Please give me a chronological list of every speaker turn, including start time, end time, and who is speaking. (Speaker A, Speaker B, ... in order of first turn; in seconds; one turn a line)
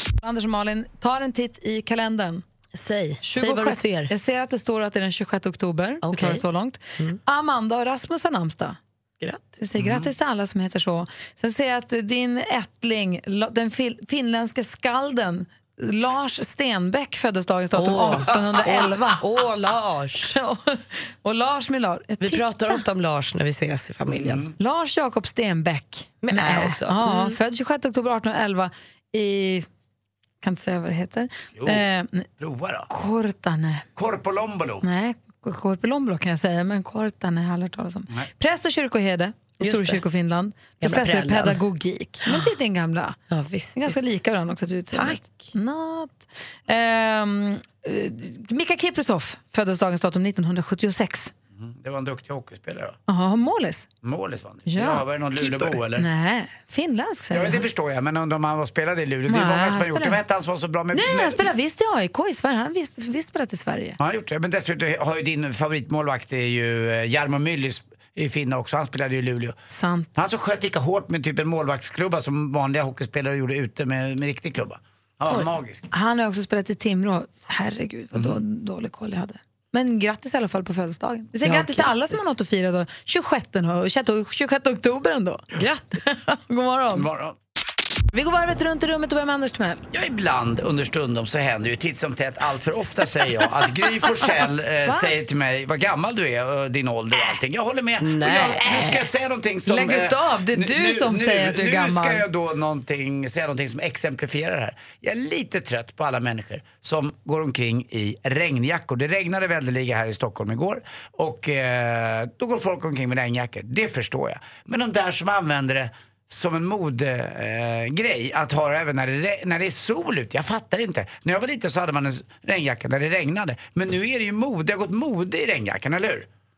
Speaker A: 0.2-8.8
Speaker B: 3.2-4.1
Speaker B: 6.0-6.4
Speaker A: 9.6-19.2
Speaker C: 9.8-10.1
Speaker B: 17.8-20.4
Speaker A: 20.3-22.8
Speaker B: 22.2-24.4
Speaker C: 24.1-24.5
Speaker A: 24.6-29.7
Speaker B: 26.2-27.4
Speaker A: 30.4-32.3
Speaker C: 31.6-31.9
Speaker C: 32.4-32.9
Speaker A: 32.9-33.9
Speaker C: 34.0-34.8
Speaker A: 34.8-43.2
Speaker B: 39.6-40.0
Speaker B: 40.8-41.6
Speaker B: 42.2-42.5
Speaker B: 43.3-44.0
Speaker A: 43.8-51.3
Speaker B: 44.9-45.5
Speaker C: 51.5-53.0
Speaker A: 53.1-53.9
Speaker C: 54.0-56.1
Speaker A: 54.7-55.0
Speaker B: 55.4-55.7
Speaker A: 56.0-57.6
Speaker C: 57.3-61.5
Speaker A: 59.3-60.2
Speaker A: 60.9-64.0
Speaker C: 64.0-69.5
Speaker A: 69.7-70.2
Speaker C: 70.2-75.9
Speaker A: 75.9-87.1
Speaker B: 81.4-82.1
Speaker B: 85.6-85.8
Speaker C: 86.9-87.4
Speaker A: 88.1-89.8
Speaker C: 89.9-126.3
Speaker A: 94.8-95.1
Speaker B: 98.0-99.1
Speaker A: 99.7-102.2